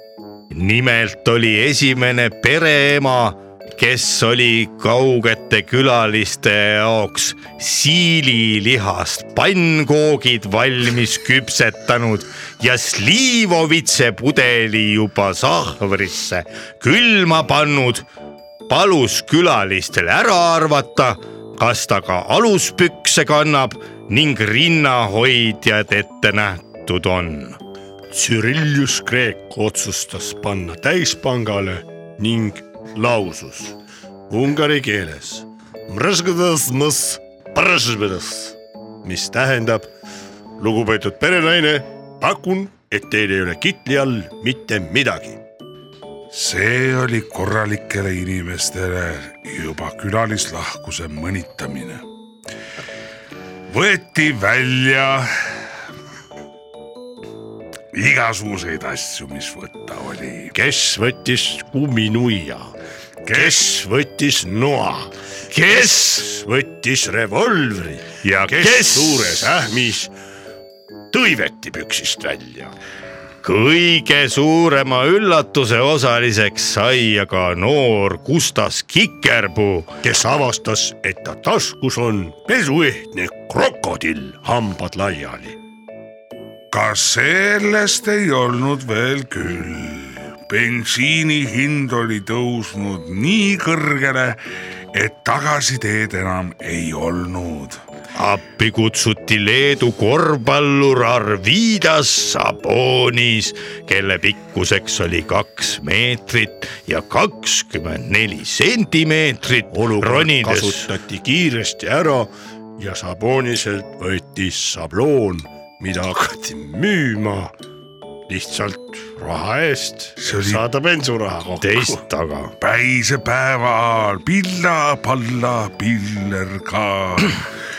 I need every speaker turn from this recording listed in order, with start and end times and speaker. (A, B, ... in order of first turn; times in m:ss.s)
0:00.5-0:18.0 A
0:18.7-0:27.6 A
0:28.1-0:33.7 B
0:34.3-0:39.9 B
0:40.6-0:45.4 B
0:46.3-0:52.0 C
0:53.7-0:55.6 C
0:57.9-1:00.5 C
1:00.5-1:02.7 B
1:03.2-1:03.6 C
1:03.3-1:10.1 B
1:05.5-1:06.2 A
1:08.2-1:09.4 A
1:11.1-1:12.7 B
1:13.4-1:19.9 A
1:20.0-1:25.6 B
1:26.7-1:37.8 C
1:38.1-1:50.9 A
1:49.7-1:57.5 B
1:58.3-2:02.0 B
2:00.2-2:00.6 C
2:01.6-2:02.5 A
2:02.6-2:07.4 C